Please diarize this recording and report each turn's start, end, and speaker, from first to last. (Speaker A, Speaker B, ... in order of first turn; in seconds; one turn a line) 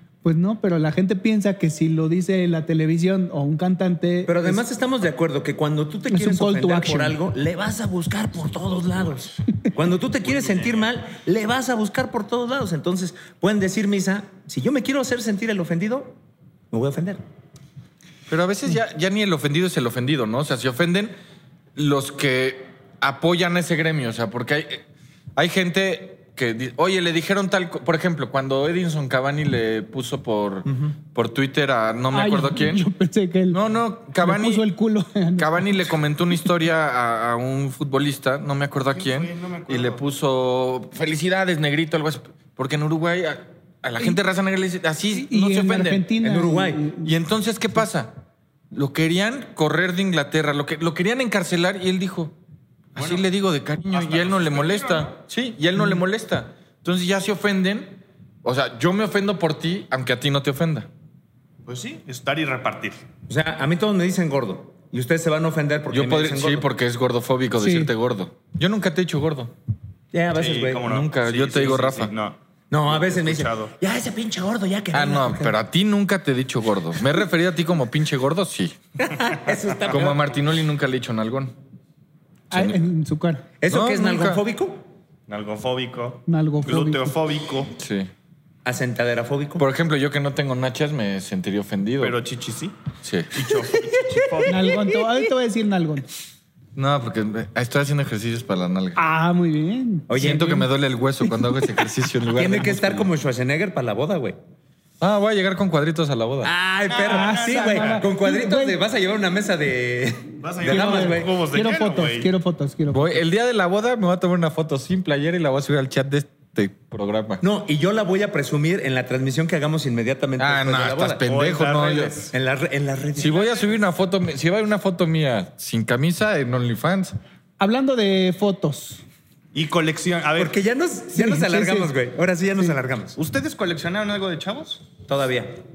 Speaker A: 0.2-4.6
Speaker B: 4.3-16.2
Speaker A: 6.1-7.2
Speaker C: 10.2-10.9
Speaker B: 16.7-17.2
Speaker D: 18.3-21.1
Speaker D: 21.8-24.9
Speaker D: 25.4-32.9
Speaker B: 30.7-30.9
Speaker A: 32.1-35.9
Speaker D: 33.5-34.7
Speaker D: 35.4-46.1
Speaker C: 38.9-40.0
Speaker A: 45.1-47.1
Speaker B: 46.2-46.8
Speaker D: 47.0-48.2
Speaker D: 48.7-52.4
Speaker D: 53.0-60.9
Speaker C: 53.0-53.3
Speaker C: 53.9-55.2
Speaker C: 61.7-63.0
Speaker B: 63.3-66.7
Speaker D: 65.9-69.5
Speaker A: 67.6-67.9
Speaker B: 70.1-70.9
Speaker C: 70.3-73.8
Speaker D: 70.8-72.1
Speaker B: 72.7-75.6
Speaker D: 74.9-78.8
Speaker B: 79.0-80.3
Speaker D: 79.9-81.5
Speaker A: 82.5-83.5
Speaker D: 82.5-82.8
Speaker B: 83.6-84.9
Speaker D: 83.7-84.4
Speaker C: 85.3-87.7
Speaker A: 86.3-87.1
Speaker D: 87.8-88.1
Speaker B: 88.7-89.7
Speaker D: 89.6-92.2
Speaker C: 92.0-92.8
Speaker D: 93.0-93.4
Speaker C: 93.3-94.7
Speaker B: 94.4-95.2
Speaker A: 94.5-96.1
Speaker D: 96.8-99.0
Speaker A: 99.0-100.2
Speaker B: 100.1-100.7
Speaker D: 100.2-103.1
Speaker A: 101.3-101.9
Speaker B: 102.3-104.4
Speaker D: 105.0-106.5
Speaker B: 106.4-111.3
Speaker C: 106.9-108.0
Speaker A: 107.1-108.8
Speaker C: 110.4-112.3
Speaker A: 110.7-113.2
Speaker D: 112.9-117.4
Speaker B: 117.4-121.2
Speaker D: 120.4-122.3
Speaker C: 121.3-122.3
Speaker B: 122.3-123.3
Speaker D: 123.2-127.2
Speaker C: 123.2-123.7
Speaker A: 127.6-129.0
Speaker C: 129.5-130.6
Speaker B: 130.4-133.2
Speaker A: 131.1-131.9
Speaker C: 133.2-134.9
Speaker B: 135.1-135.6